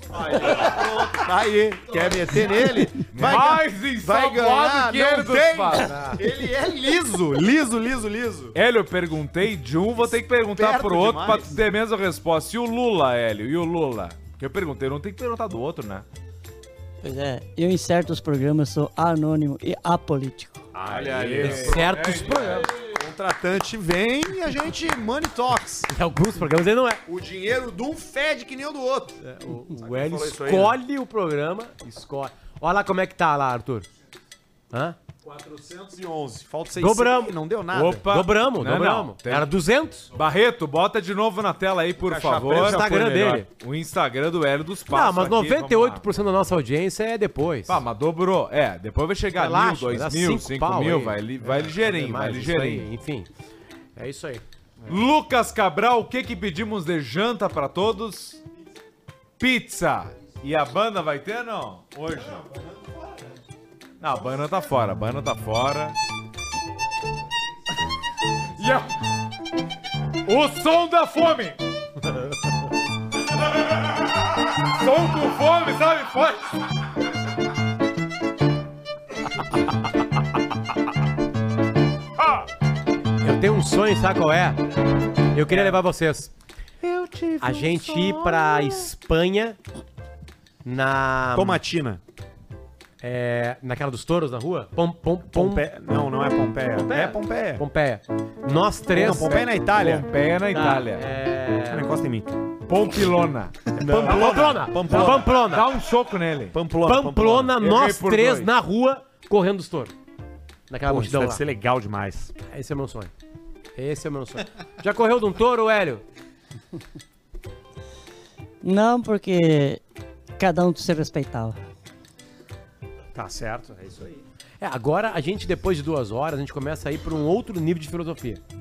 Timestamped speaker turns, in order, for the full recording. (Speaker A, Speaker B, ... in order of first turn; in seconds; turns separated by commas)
Speaker A: 0.1-8.6, Speaker B: 3.1-5.9, Speaker C: 5.8-6.2, Speaker B: 8.5-16.1, Speaker A: 10.5-11.5, Speaker D: 17.0-20.6, Speaker A: 20.7-21.9, Speaker B: 20.9-22.8, Speaker C: 21.4-22.7, Speaker A: 22.7-25.9, Speaker C: 25.9-27.0, Speaker A: 27.1-29.2, Speaker C: 29.2-33.9, Speaker A: 29.7-30.8, Speaker C: 34.7-35.0, Speaker A: 35.2-38.1, Speaker C: 36.8-40.1, Speaker B: 38.0-39.5, Speaker B: 40.1-46.0, Speaker A: 42.0-43.0, Speaker C: 42.5-43.5, Speaker C: 44.9-47.8, Speaker B: 47.7-52.9, Speaker C: 49.3-53.3, Speaker C: 54.0-54.4, Speaker B: 54.9-58.4, Speaker B: 59.4-62.4, Speaker A: 62.4-62.9, Speaker B: 64.0-66.0, Speaker B: 68.6-68.9, Speaker B: 70.2-71.6, Speaker B: 74.6-76.6, Speaker C: 83.2-84.6, Speaker C: 85.3-86.3, Speaker B: 86.8-88.9, Speaker C: 87.4-89.6, Speaker C: 90.6-91.6, Speaker A: 91.3-92.0, Speaker C: 93.0-95.7, Speaker A: 95.3-97.6, Speaker C: 96.7-99.4, Speaker A: 98.9-100.0, Speaker B: 99.3-101.1, Speaker C: 100.5-101.9, Speaker A: 101.7-102.4, Speaker B: 102.7-106.5, Speaker C: 103.8-105.7, Speaker A: 103.8-105.3, Speaker A: 106.5-107.5, Speaker C: 106.8-109.9, Speaker B: 107.6-108.5, Speaker C: 110.7-111.4, Speaker A: 110.8-112.3, Speaker C: 112.5-113.1, Speaker C: 113.7-116.0, Speaker D: 118.6-119.8, Speaker D: 120.4-121.6, Speaker A: 123.1-124.2, Speaker C: 124.6-128.4